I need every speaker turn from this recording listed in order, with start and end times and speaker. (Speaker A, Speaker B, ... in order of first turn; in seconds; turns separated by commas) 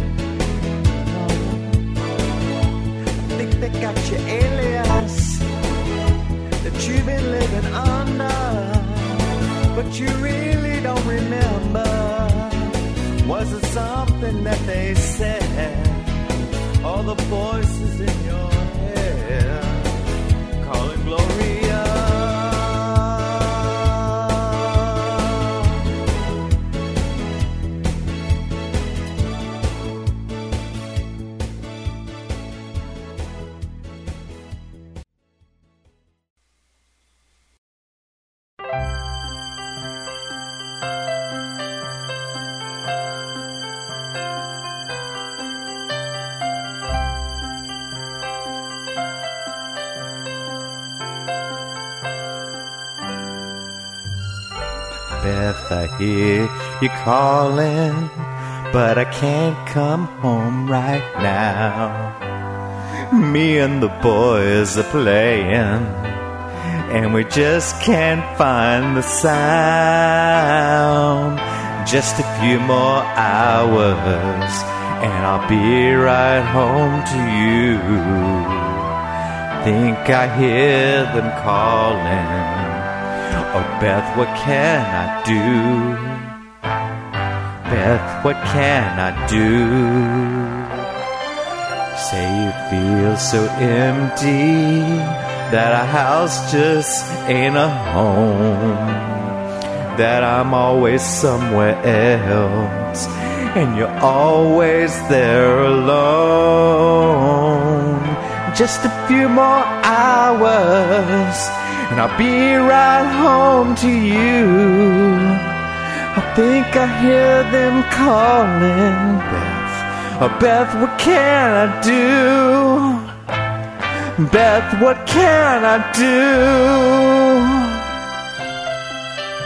Speaker A: 0.8-1.9, Speaker A: 3.1-5.5, Speaker A: 6.6-16.2, Speaker A: 16.8-20.0, Speaker A: 20.6-25.8, Speaker A: 55.2-62.1, Speaker A: 63.0-78.9, Speaker A: 79.6-86.3, Speaker A: 87.7-90.8, Speaker A: 91.9-99.3, Speaker A: 99.9-123.1, Speaker A: 124.0-127.9